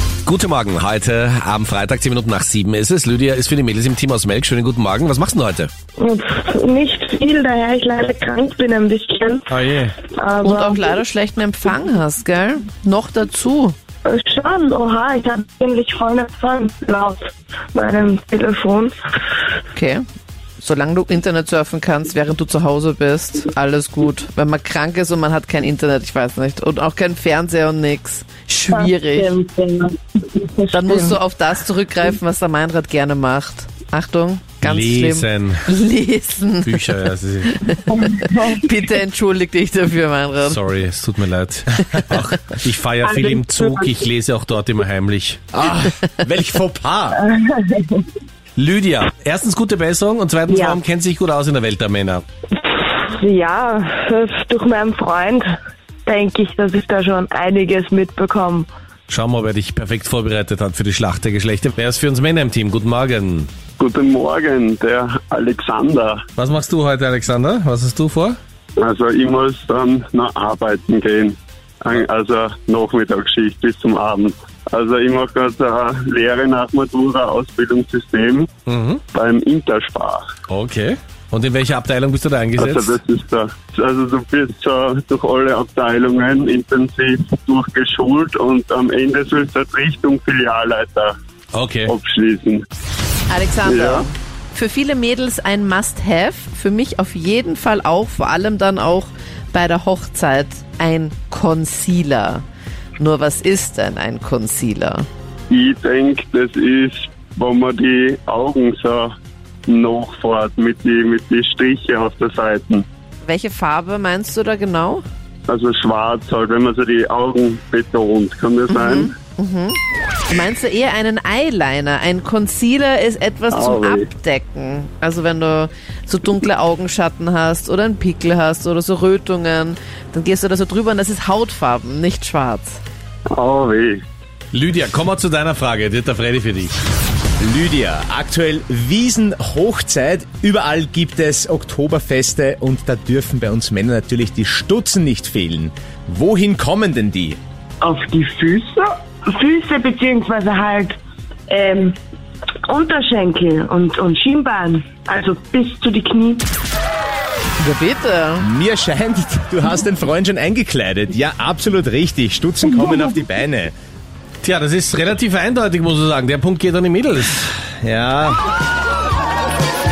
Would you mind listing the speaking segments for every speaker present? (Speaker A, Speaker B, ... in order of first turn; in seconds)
Speaker A: 0.2-5.7, 9.5-9.9, 34.6-35.7, 36.6-37.7, 40.4-45.4, 48.6-52.2, 59.1-63.5, 66.4-68.4, 78.7-79.0, 80.5-83.0, 91.5-91.9, 134.5-136.8, 164.4-167.6
Speaker B: 6.0-9.5, 10.1-11.0, 14.1-18.9, 28.7-31.2, 37.9-38.6, 43.0-43.9, 47.2-48.0, 50.5-50.8, 52.6-55.5, 56.1-58.7, 147.8-151.0, 151.5-152.0, 152.7-156.5
Speaker C: 10.4-13.8, 19.7-20.0, 20.6-29.3, 30.7-37.0, 37.5-40.6, 93.3-102.4, 103.0-105.0, 113.2-115.0, 118.7-119.8, 120.3-132.8, 157.6-158.5
Speaker D: 45.5-47.2, 137.4-147.4, 158.4-163.7, 167.8-168.4
Speaker E: 63.8-66.2, 68.8-78.5, 79.1-80.3, 82.6-91.2, 91.9-92.6, 93.7-94.1, 105.5-109.1, 109.7-112.8, 115.5-119.1, 123.5-124.1, 133.3-134.0